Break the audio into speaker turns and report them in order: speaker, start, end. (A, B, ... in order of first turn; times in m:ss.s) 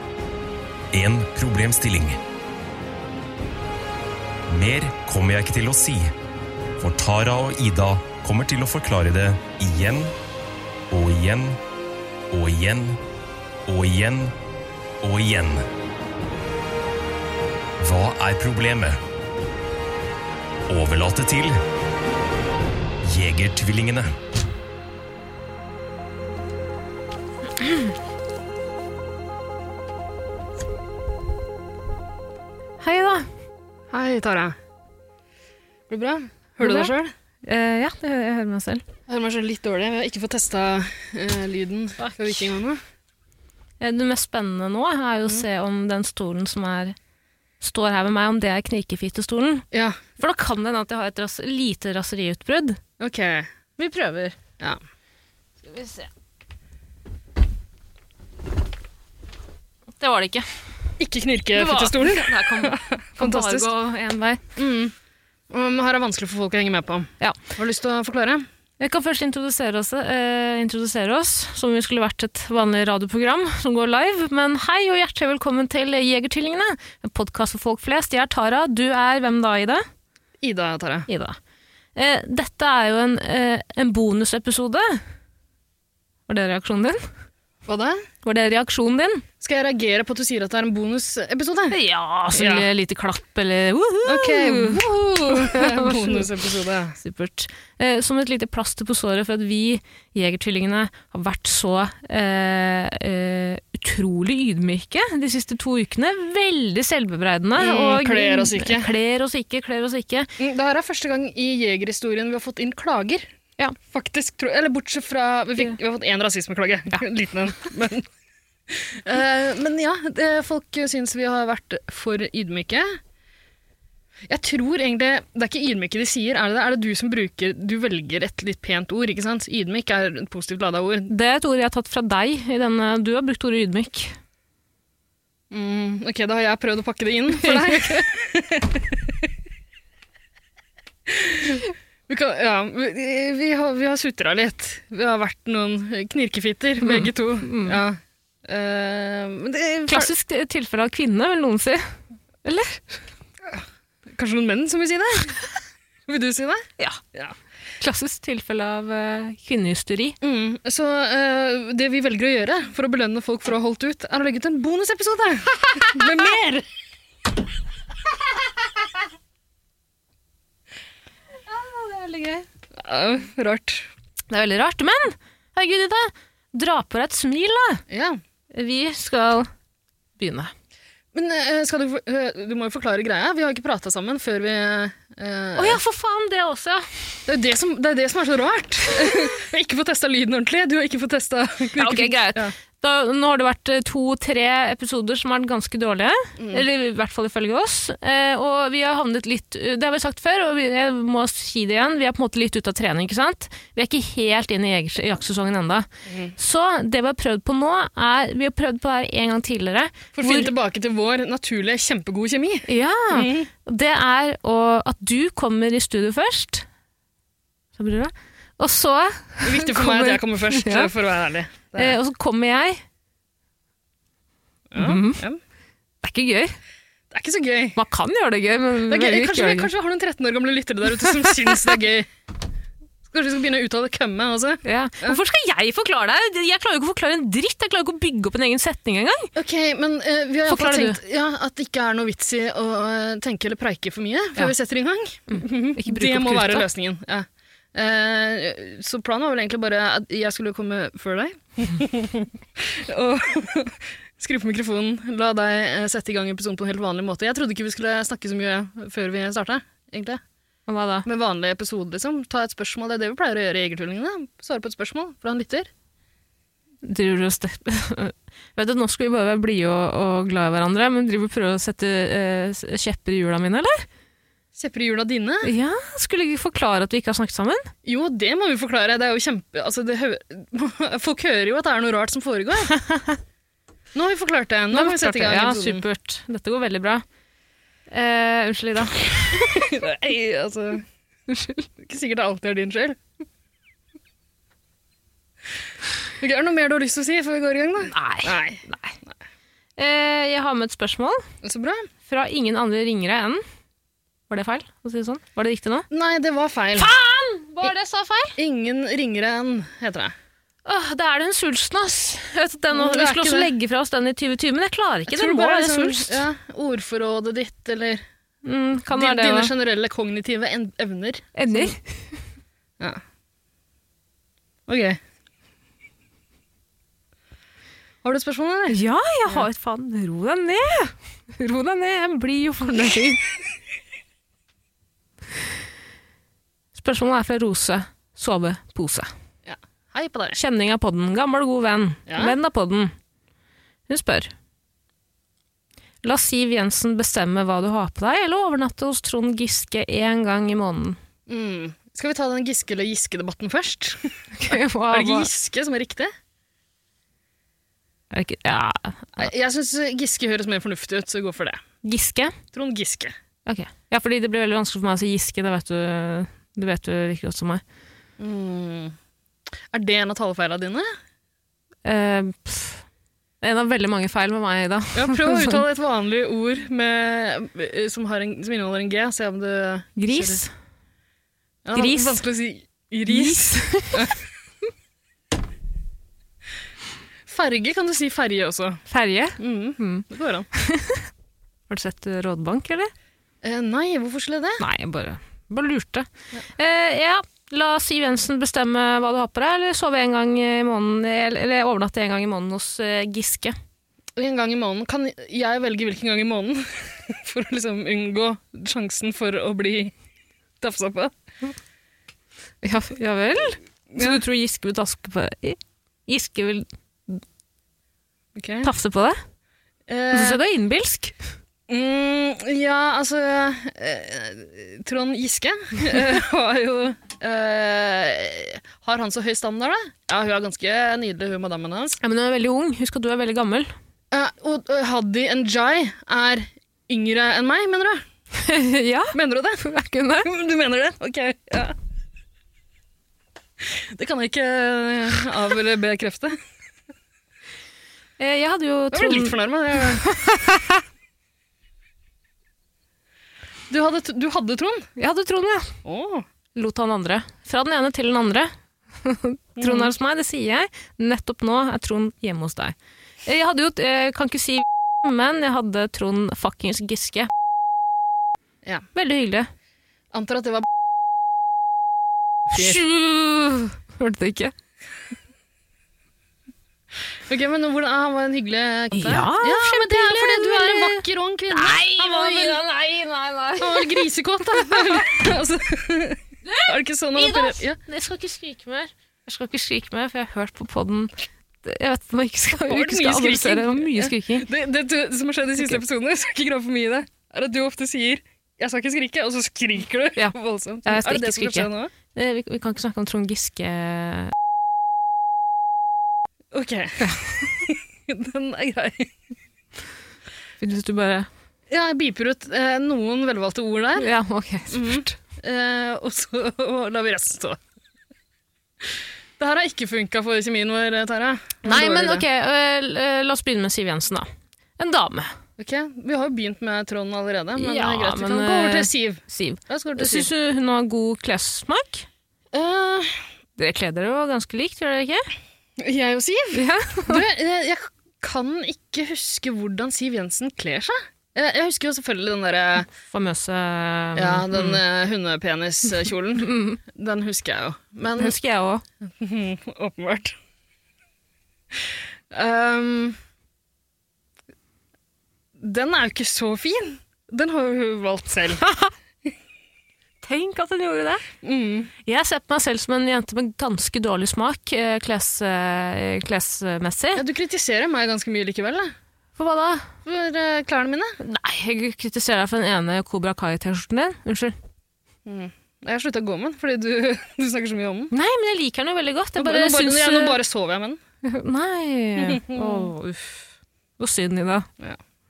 0:00.9-0:02.2 A
0:04.5-0:06.1 A
0:06.8-0:10.1 A
0:10.9-0:11.6 A
0:12.3-0:13.0 A
0:13.7-0:14.4 A
0:15.0-0:15.6 A
0:17.8-0:19.0 A
0:20.7-0:21.6 A
0:23.0-0:24.1 A
0:32.8-0:33.3 B
0:33.9-0:34.6 C
0:35.9-0:37.1 C
0:36.6-0:36.9 B
0:37.5-0:38.8 B
0:39.1-0:42.8 C
0:42.0-0:42.5 B
0:43.8-0:47.0 B
0:47.6-0:49.7 B
0:49.7-0:50.0 C
0:50.2-0:52.8 B
0:53.0-0:53.5 C
0:53.8-0:54.4 B
0:55.6-0:56.1 B
1:00.0-1:00.5 B
1:01.0-1:03.7 C
1:01.5-1:04.4 B
1:04.6-1:04.9 C
1:05.5-1:08.4 C
1:08.8-1:19.8 B
1:20.4-1:21.1 C
1:21.1-1:21.4 B
1:22.0-1:25.0 B
1:26.3-1:27.0 B
1:27.7-1:28.1 C
1:28.2-1:29.2 B
1:29.4-1:31.8 C
1:31.7-1:36.3 B
1:32.3-1:32.7 C
1:34.1-1:37.0 C
1:37.0-1:50.3 B
1:47.6-1:48.9 C
1:50.4-1:53.3 C
1:53.9-1:58.1 C
1:58.7-2:03.0 C
2:04.3-2:11.1 C
2:11.1-2:14.2 B
2:15.5-2:19.1 C
2:17.4-2:18.0 B
2:21.1-2:30.1 C
2:26.8-2:27.8 B
2:29.9-2:31.8 B
2:32.4-2:33.0 B
2:33.5-2:35.4 C
2:36.1-2:37.4 C
2:37.8-2:40.2 B
2:40.2-2:46.7 C
2:51.5-2:52.5 B
2:52.8-2:53.9 C
2:54.3-2:57.8 B
2:57.9-2:58.2 C
2:58.5-2:59.5 B
3:00.2-3:00.5 B
3:01.1-3:05.8 C
3:05.6-3:06.9 B
3:07.3-3:12.5 C
3:11.8-3:30.5 B
3:16.4-3:16.6 C
3:26.1-3:26.4 C
3:30.2-3:33.5 C
3:32.7-3:36.7 B
3:37.8-3:40.9 B
3:39.4-3:42.0 C
3:41.8-3:42.8 B
3:44.7-3:45.4 C
3:44.8-3:45.2 B
3:46.0-3:46.6 B
3:47.1-3:47.8 C
3:47.8-3:49.7 B
3:48.9-3:52.1 C
3:51.2-3:51.6 B
3:53.1-3:55.2 C
3:54.6-3:59.3 B
3:59.4-4:20.2 C
4:00.5-4:01.0 B
4:05.3-4:06.7 B
4:20.7-4:21.1 B
4:21.1-4:25.7 C
4:26.8-4:33.8 B
4:34.6-4:35.5 C
4:35.4-4:37.7 B
4:37.8-4:42.8 C
4:42.7-4:43.2 B
4:44.0-4:45.8 C
4:44.7-4:47.0 B
4:47.9-4:49.7 B
4:49.4-4:50.8 C
4:51.3-4:51.7 B
4:51.8-4:53.0 C
4:56.2-4:58.6 C
4:57.9-4:59.0 B
4:59.8-5:01.2 B
5:01.4-5:01.9 C
5:02.1-5:03.4 B
5:04.3-5:05.9 B
5:05.9-5:06.9 C
5:06.8-5:08.4 B
5:08.4-5:10.1 C
5:10.7-5:16.2 B
5:12.7-5:13.5 C
5:15.1-5:18.0 C
5:18.4-5:19.5 B
5:18.9-5:21.8 C
5:21.4-5:22.2 B
5:24.7-5:25.0 C
5:28.0-5:29.5 C
5:28.7-5:33.3 B
5:36.7-5:39.1 B
5:39.4-5:40.4 C
5:40.4-5:42.9 B
5:42.1-5:42.4 C
5:43.9-5:44.3 B
5:46.0-5:51.0 B
5:51.3-5:56.1 C
5:54.4-5:55.3 B
5:58.1-5:59.3 B
5:59.2-6:01.6 C
6:01.8-6:02.4 B
6:02.5-6:03.1 C
6:03.5-6:07.6 B
6:08.2-6:09.0 C
6:09.7-6:10.9 C
6:11.9-6:12.8 B
6:13.4-6:15.6 B
6:15.0-6:20.4 C
6:20.0-6:20.5 B
6:21.6-6:24.2 C
6:21.8-6:22.2 B
6:23.1-6:24.2 B
6:27.3-6:28.8 C
6:28.9-6:31.1 B
6:29.4-6:30.5 C
6:31.7-6:32.9 B
6:33.4-6:34.6 C
6:34.6-6:43.6 B
6:44.2-6:49.9 C
6:50.6-6:51.1 C
6:52.6-6:57.2 B
6:53.9-6:54.2 C
6:58.4-6:58.7 C
6:58.6-6:59.2 B
6:59.9-7:00.4 C
7:00.1-7:01.2 B
7:01.7-7:12.0 C
7:12.0-7:13.7 B
7:14.1-7:18.0 C
7:18.4-7:20.3 B
7:19.1-7:19.6 C
7:20.2-7:21.8 C
7:23.7-7:26.4 C
7:28.2-7:30.8 B
7:28.9-7:30.1 C
7:33.7-7:34.9 C
7:35.0-7:35.8 B
7:35.8-7:36.2 C
7:36.6-7:47.3 B
7:39.6-7:39.9 C
7:48.6-7:48.9 C
7:49.0-7:49.5 B
7:50.1-7:50.7 C
7:52.5-7:54.5 B
7:52.5-7:52.8 C
7:57.3-8:02.6 C
7:58.9-8:05.0 B
8:03.6-8:07.8 C
8:06.4-8:14.5 B
8:12.7-8:21.9 C
8:20.2-8:24.3 B
8:26.5-8:29.1 C
8:30.6-8:31.3 B
8:31.7-8:34.1 C
8:34.0-8:35.2 B
8:34.7-8:37.6 C
8:39.4-8:42.2 C
8:41.6-8:44.3 B
8:44.8-8:45.3 B
8:45.6-8:50.3 C
8:47.6-8:52.1 B
8:52.5-8:53.2 C
8:53.6-8:55.3 B
8:55.8-9:02.9 C
8:56.5-8:57.2 B
9:02.9-9:04.8 B
9:04.2-9:08.4 C
9:06.4-9:06.8 B
9:08.1-9:08.8 B
9:09.2-9:10.4 C
9:12.3-9:13.2 C
9:15.6-9:18.6 C
9:18.6-9:18.9 B
9:20.2-9:21.2 B
9:21.4-9:21.9 C
9:22.0-9:27.2 B
9:27.2-9:28.9 C
9:29.4-9:29.9 B
9:30.0-9:31.2 C
9:31.2-9:34.6 B
9:35.2-9:38.1 C
9:38.1-9:40.4 B
9:39.4-9:41.0 C
9:41.2-9:43.4 B
9:42.2-9:42.9 C
9:44.0-9:44.7 B